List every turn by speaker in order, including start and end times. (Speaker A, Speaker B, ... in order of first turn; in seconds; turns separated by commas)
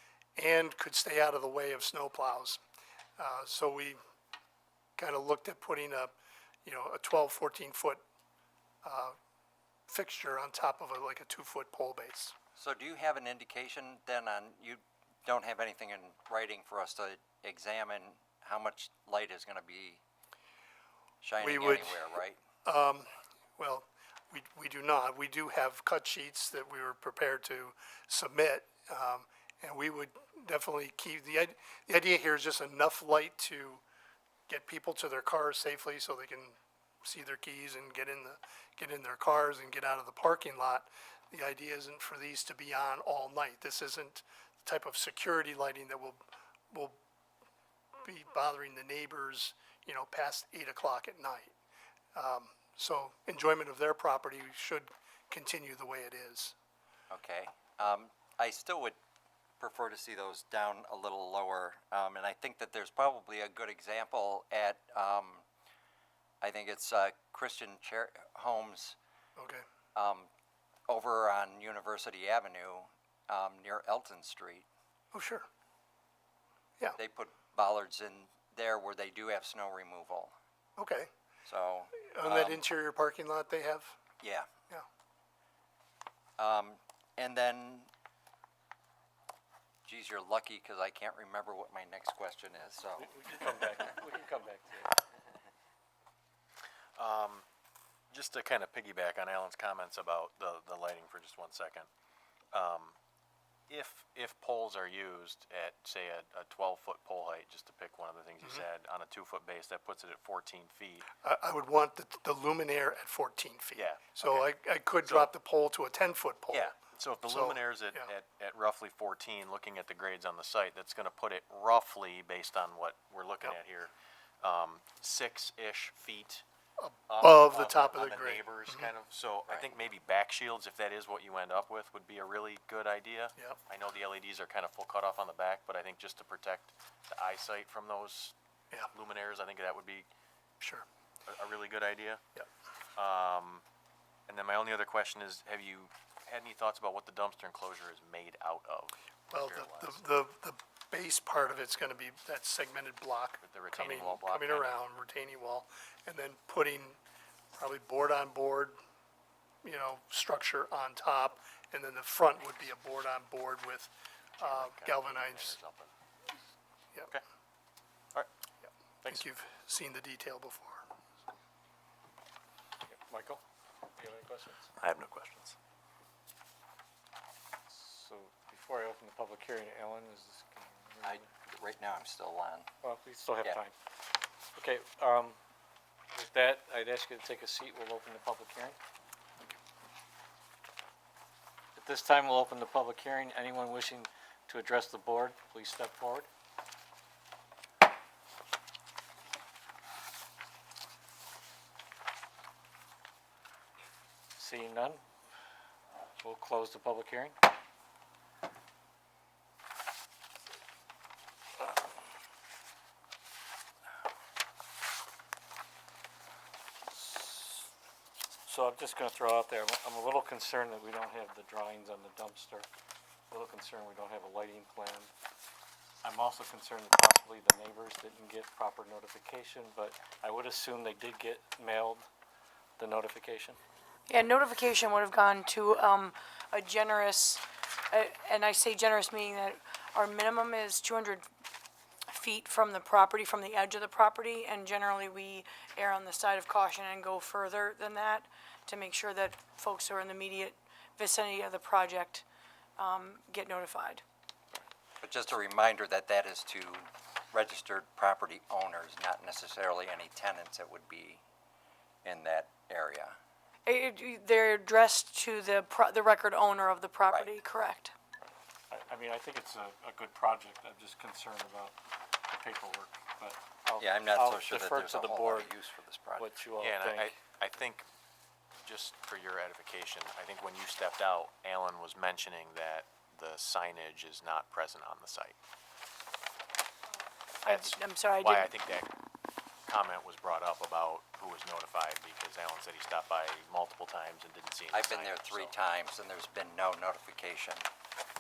Speaker A: 0.4-2.6, Speaker A: 3.2-4.0, Speaker A: 5.0-6.1, Speaker A: 6.7-8.0, Speaker A: 8.8-9.2, Speaker A: 9.9-12.3, Speaker B: 12.6-20.0, Speaker B: 21.2-22.4, Speaker A: 21.4-22.0, Speaker A: 22.6-33.8, Speaker A: 34.5-47.0, Speaker A: 48.0-51.5, Speaker A: 52.1-56.5, Speaker B: 57.1-59.0, Speaker B: 59.6-65.4, Speaker B: 66.4-69.0, Speaker A: 69.4-69.6, Speaker B: 70.0-70.3, Speaker B: 70.9-74.7, Speaker A: 75.1-75.5, Speaker B: 77.0-80.3, Speaker A: 80.8-81.1, Speaker B: 81.5-82.6, Speaker A: 82.0-84.0, Speaker B: 84.2-84.5, Speaker B: 86.4-87.9, Speaker B: 89.8-93.2, Speaker C: 93.0-95.0, Speaker D: 97.0-97.5, Speaker D: 98.1-101.9, Speaker D: 102.5-103.0, Speaker D: 103.7-111.1, Speaker A: 111.2-116.7, Speaker D: 113.8-114.5, Speaker D: 115.0-115.3, Speaker D: 116.5-126.4, Speaker A: 117.3-118.1, Speaker A: 126.8-128.9, Speaker D: 127.1-138.3, Speaker D: 138.9-140.1, Speaker A: 140.6-140.9, Speaker D: 141.3-142.2, Speaker D: 143.0-143.6, Speaker D: 144.3-150.0, Speaker A: 149.3-157.0, Speaker D: 153.4-154.8, Speaker A: 157.6-158.8, Speaker A: 159.6-165.6, Speaker D: 164.4-165.9, Speaker A: 168.6-170.8, Speaker C: 172.9-173.4, Speaker C: 174.0-174.7, Speaker D: 175.1-175.5, Speaker C: 177.7-181.2, Speaker B: 181.0-182.7, Speaker C: 182.8-183.8, Speaker C: 184.5-185.4, Speaker C: 186.1-188.8, Speaker C: 191.8-196.3, Speaker C: 204.4-205.0, Speaker C: 206.2-207.4, Speaker C: 218.4-222.7, Speaker C: 223.3-225.1, Speaker C: 226.0-232.1, Speaker C: 232.8-233.6, Speaker E: 234.1-241.3, Speaker E: 242.1-252.2, Speaker E: 252.8-254.0, Speaker B: 255.0-261.2, Speaker B: 262.0-263.2, Speaker E: 263.7-267.9, Speaker C: 268.7-275.5, Speaker B: 273.8-276.3, Speaker C: 276.2-277.2, Speaker D: 276.6-277.9, Speaker D: 278.6-285.4, Speaker E: 287.4-288.5, Speaker D: 287.5-288.9, Speaker D: 289.7-295.5, Speaker B: 294.7-297.6